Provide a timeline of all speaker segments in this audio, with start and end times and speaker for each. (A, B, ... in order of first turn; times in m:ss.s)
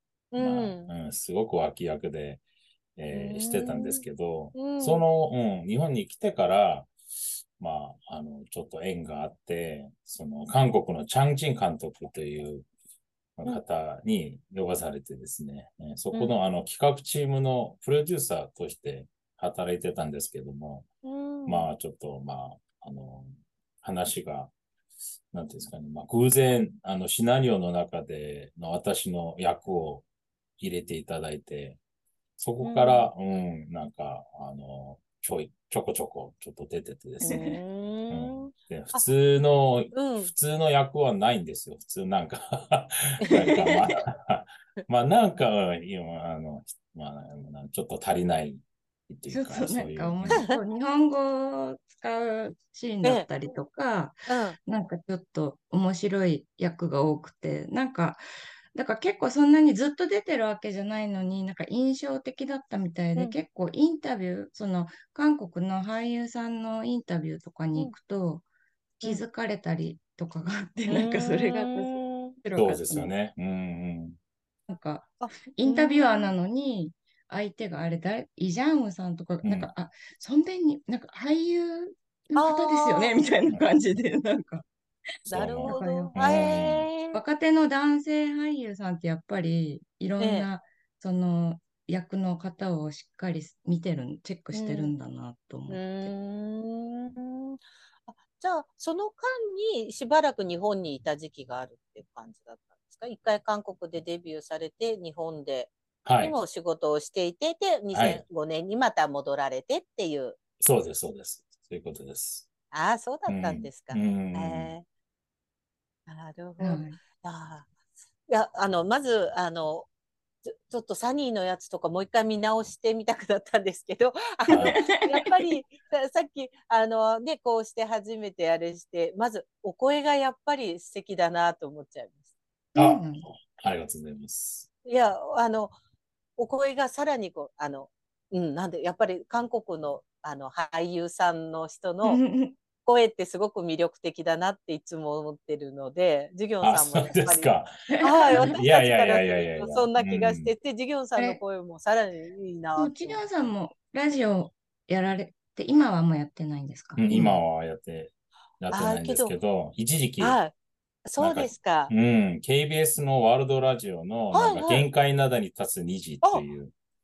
0:00.3-0:00.9 A
0:00.4-0:02.4 B
0:03.0-0:06.9 B
0:03.1-0:04.0 A
0:04.5-0:05.0 A
0:07.6-0:12.7 B
0:13.4-0:20.9 B
0:21.0-0:21.7 A
0:21.4-0:24.5 B
0:25.3-0:30.0 B
0:30.6-0:31.8 B
0:32.4-0:50.5 B
0:32.6-0:33.1 A
0:37.2-0:39.0 A
0:39.9-0:40.3 A
0:43.2-0:43.9 A
0:49.3-1:08.4 C
0:54.3-0:54.6 A
1:09.0-1:13.1 C
1:10.9-1:12.4 A
1:12.5-1:14.2 B
1:14.7-1:24.6 C
1:15.2-1:16.3 A
1:19.4-1:19.7 B
1:22.4-1:23.2 A
1:25.3-1:26.9 B
1:25.3-1:27.2 A
1:25.6-1:36.1 C
1:30.2-1:30.5 A
1:34.5-1:34.9 A
1:35.7-1:50.4 A
1:46.0-1:46.4 B
1:47.9-1:48.2 B
1:50.6-1:52.5 B
1:52.7-1:54.8 A
1:53.3-1:54.7 B
1:56.1-1:57.7 A
1:56.6-1:57.0 C
1:58.3-1:59.9 A
2:00.4-2:12.3 A
2:04.5-2:04.9 B
2:04.6-2:05.1 C
2:12.7-2:13.2 C
2:12.8-2:14.7 B
2:14.8-2:15.7 A
2:16.4-2:22.2 A
2:22.0-2:22.5 C
2:22.8-2:33.2 A
2:26.6-2:27.7 B
2:27.9-2:28.5 C
2:28.3-2:30.5 B
2:32.8-2:37.4 C
2:37.0-2:40.4 B
2:38.7-2:39.3 A
2:40.2-2:40.5 A
2:41.0-2:41.9 A
2:41.2-2:46.7 B
2:44.3-2:44.9 A